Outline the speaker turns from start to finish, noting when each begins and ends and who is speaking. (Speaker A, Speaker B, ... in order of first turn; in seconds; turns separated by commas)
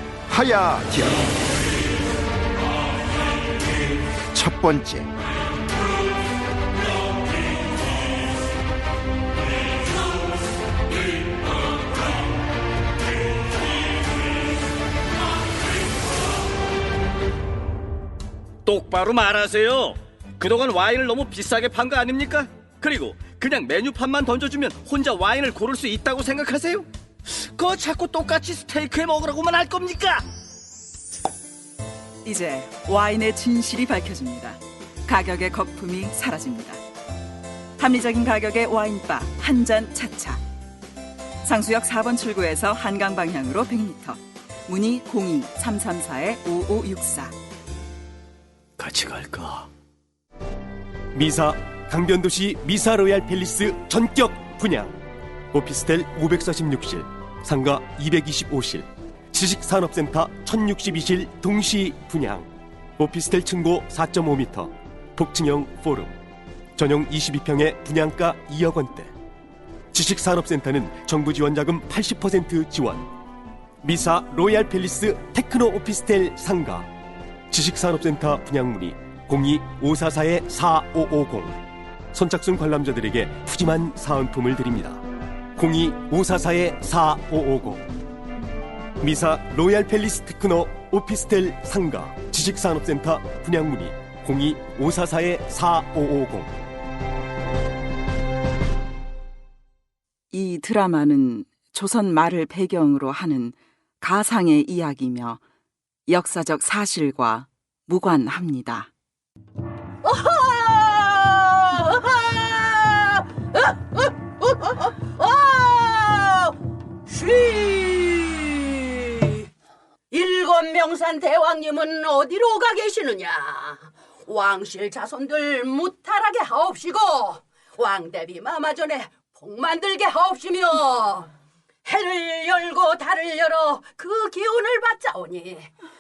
Speaker A: 0.3-1.4, Speaker A: 4.3-5.1, Speaker B: 18.7-30.3, Speaker C: 32.2-36.8, Speaker C: 37.8-40.4, Speaker C: 41.4-47.4, Speaker B: 48.8-49.7, Speaker D: 51.1-55.0, Speaker D: 55.5-66.1, Speaker D: 66.8-69.1, Speaker D: 69.9-73.1, Speaker D: 73.8-76.9, Speaker D: 77.5-81.6, Speaker D: 82.1-85.0, Speaker D: 85.6-87.8, Speaker D: 89.0-96.5, Speaker C: 100.3-105.4, Speaker C: 106.1-108.9, Speaker E: 110.0-116.5, Speaker E: 117.1-119.5, Speaker E: 120.1-131.3, Speaker E: 131.9-135.7